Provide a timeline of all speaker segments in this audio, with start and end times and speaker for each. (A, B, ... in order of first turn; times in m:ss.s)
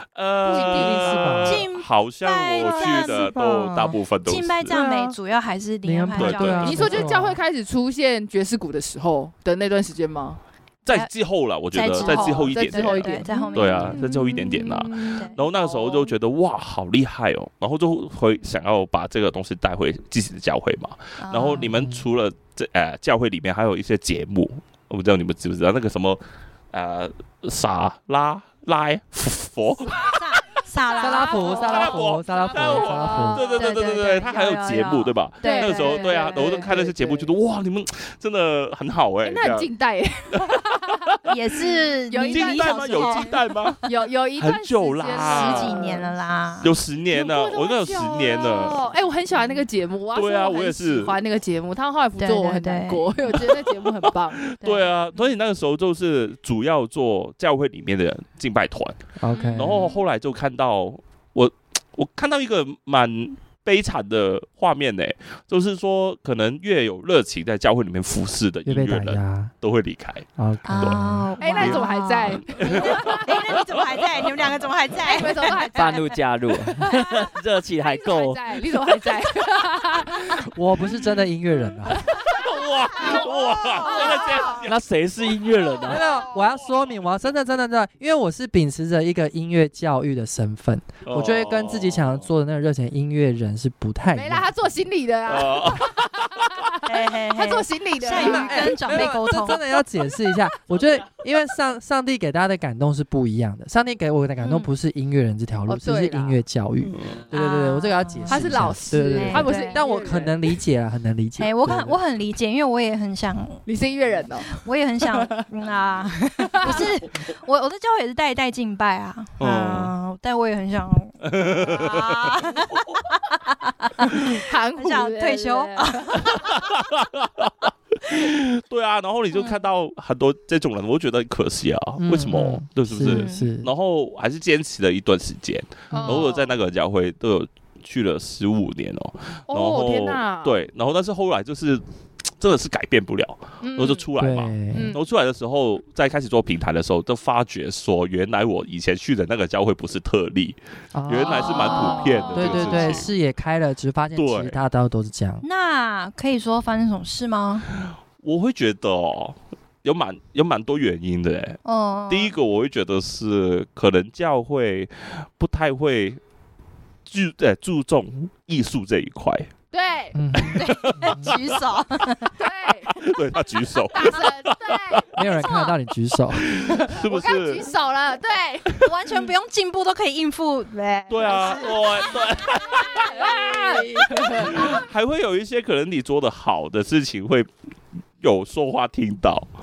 0:00.2-0:04.8 A
0:00.4-0:01.5 B
0:00.5-0:01.7 C
0:01.4-0:07.1 D
0:02.9-0:03.9 C
0:04.7-0:05.2 C
0:05.8-0:07.4 C
0:06.2-0:06.8 A
0:06.6-0:10.4 B
0:10.8-0:30.5 A
0:11.7-0:15.3 D
0:12.0-0:16.1 B
0:21.2-0:21.7 D
0:21.6-0:22.0 C
0:29.9-0:36.7 D
0:31.0-0:33.4 C
0:31.0-0:33.6 B
0:31.5-0:39.7 A
0:35.4-0:37.3 B
0:39.2-0:41.2 B
0:40.3-0:41.2 A
0:41.3-0:43.4 D
0:42.1-0:46.1 B
0:42.3-0:45.8 A
0:45.1-0:46.7 D
0:46.6-0:48.8 A
0:47.1-0:54.5 B
0:50.1-0:51.2 A
0:52.2-0:53.4 D
0:53.3-0:53.7 A
0:54.5-0:59.0 A
0:54.6-0:54.9 D
0:59.2-0:59.9 C
0:59.3-1:00.0 B
0:59.6-1:10.3 A
1:08.6-1:09.5 C
1:10.4-1:11.3 C
1:10.6-1:16.0 D
1:11.4-1:13.3 B
1:11.6-1:13.7 A
1:15.0-1:16.2 B
1:15.7-1:18.6 E
1:16.9-1:17.3 B
1:17.8-1:20.5 B
1:20.5-1:22.1 C
1:22.1-1:24.8 A
1:23.8-1:24.5 D
1:23.8-1:24.3 B
1:24.5-1:26.0 E
1:25.9-1:34.5 C
1:31.0-1:32.2 A
1:34.1-1:39.1 B
1:35.3-1:36.6 A
1:36.8-1:39.6 D
1:38.1-1:52.0 C
1:44.4-1:44.7 D
1:45.7-1:46.4 B
1:47.3-1:49.9 D
1:48.3-1:50.6 B
1:51.4-1:53.7 D
1:53.7-1:54.6 B
1:54.5-2:06.5 D
1:56.6-1:56.9 B
1:59.4-1:59.9 A
2:01.2-2:02.4 A
2:04.3-2:06.4 B
2:06.3-2:21.8 A
2:09.3-2:09.6 D
2:12.0-2:13.7 C
2:13.0-2:13.5 D
2:15.9-2:16.3 C
2:15.9-2:16.5 B
2:19.5-2:20.6 B
2:22.4-2:30.6 A
2:23.6-2:24.1 B
2:24.2-2:24.9 C
2:24.7-2:25.0 B
2:30.9-2:35.4 C
2:31.1-2:33.1 A
2:31.3-2:33.1 B
2:31.3-2:32.3 D
2:34.2-2:34.6 A
2:35.4-2:37.7 D
2:38.2-2:46.2 A
2:41.6-2:42.3 D
2:47.1-2:49.5 A
2:49.7-2:50.2 B
2:50.1-2:51.3 C
2:50.4-2:51.4 A
2:50.4-2:52.4 D
2:52.4-2:53.0 B
2:52.9-2:55.1 A
2:53.9-2:55.3 B
2:55.1-2:56.6 C
2:55.3-2:55.8 D
2:56.4-2:57.7 A
2:56.9-2:58.8 B
2:58.8-3:02.1 D
3:01.1-3:07.5 A
3:02.7-3:04.9 B
3:08.2-3:09.5 A